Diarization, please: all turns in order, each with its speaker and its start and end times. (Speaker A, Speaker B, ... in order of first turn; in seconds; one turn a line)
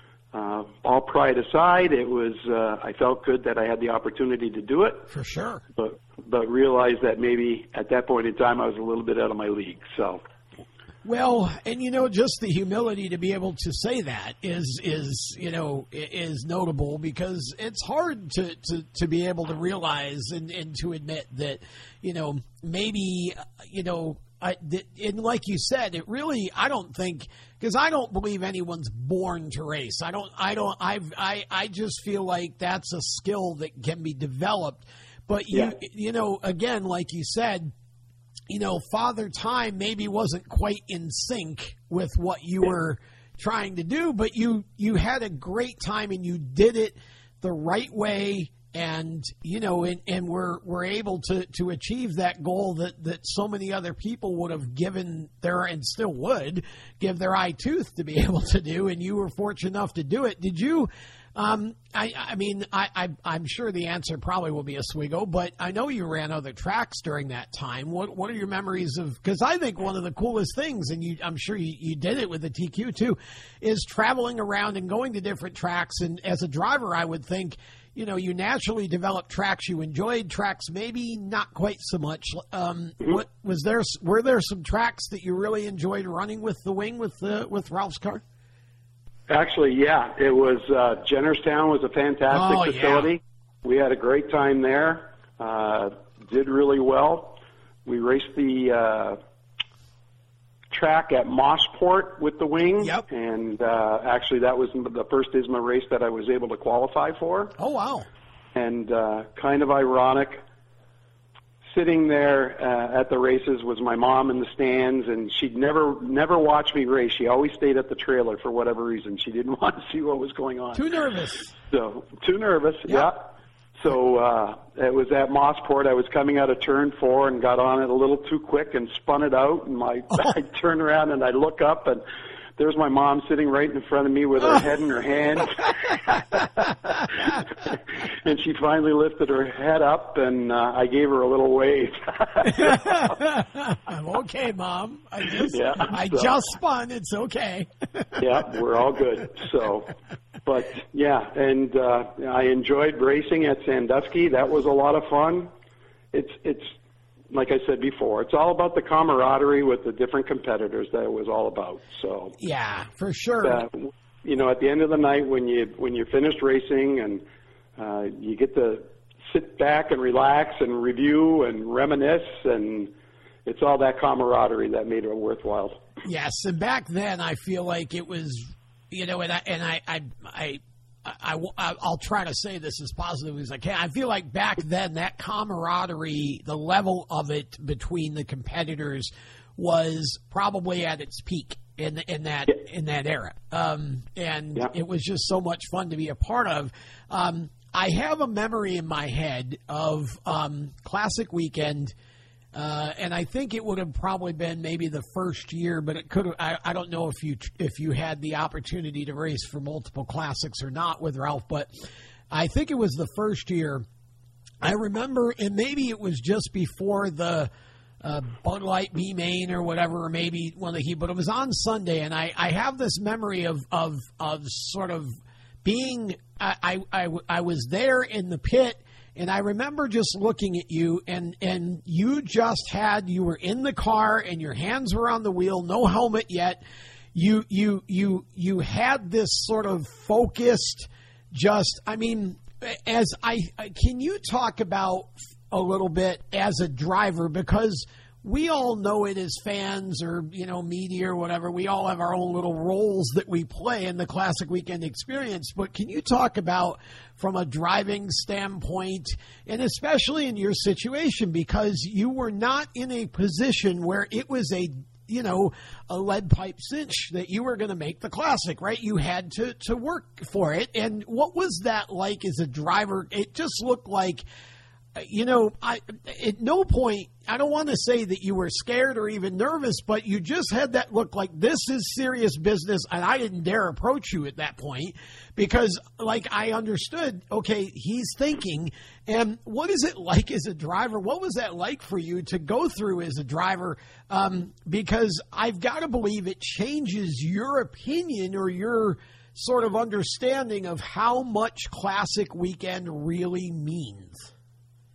Speaker A: 0.3-5.0
Speaker B: 5.1-5.6
Speaker A: 5.8-10.2
Speaker B: 11.0-37.7
Speaker B: 38.5-88.2
Speaker A: 89.3-99.2
Speaker B: 92.3-93.1
Speaker A: 100.7-107.5
Speaker B: 107.6-108.1
Speaker A: 108.5-110.4
Speaker A: 111.7-120.8
Speaker B: 120.7-121.5
Speaker A: 121.7-132.0
Speaker A: 132.6-143.1
Speaker B: 142.5-148.2
Speaker A: 145.5-146.3
Speaker A: 148.2-149.9
Speaker A: 150.4-155.5
Speaker A: 156.1-156.7
Speaker A: 157.3-162.3
Speaker B: 162.4-163.6
Speaker A: 163.4-167.2
Speaker A: 167.8-172.9
Speaker A: 173.4-175.8
Speaker B: 176.0-201.9
Speaker B: 202.5-213.8
Speaker B: 214.6-217.5
Speaker B: 218.0-225.1
Speaker B: 225.6-236.6
Speaker B: 237.1-274.2
Speaker B: 274.9-304.3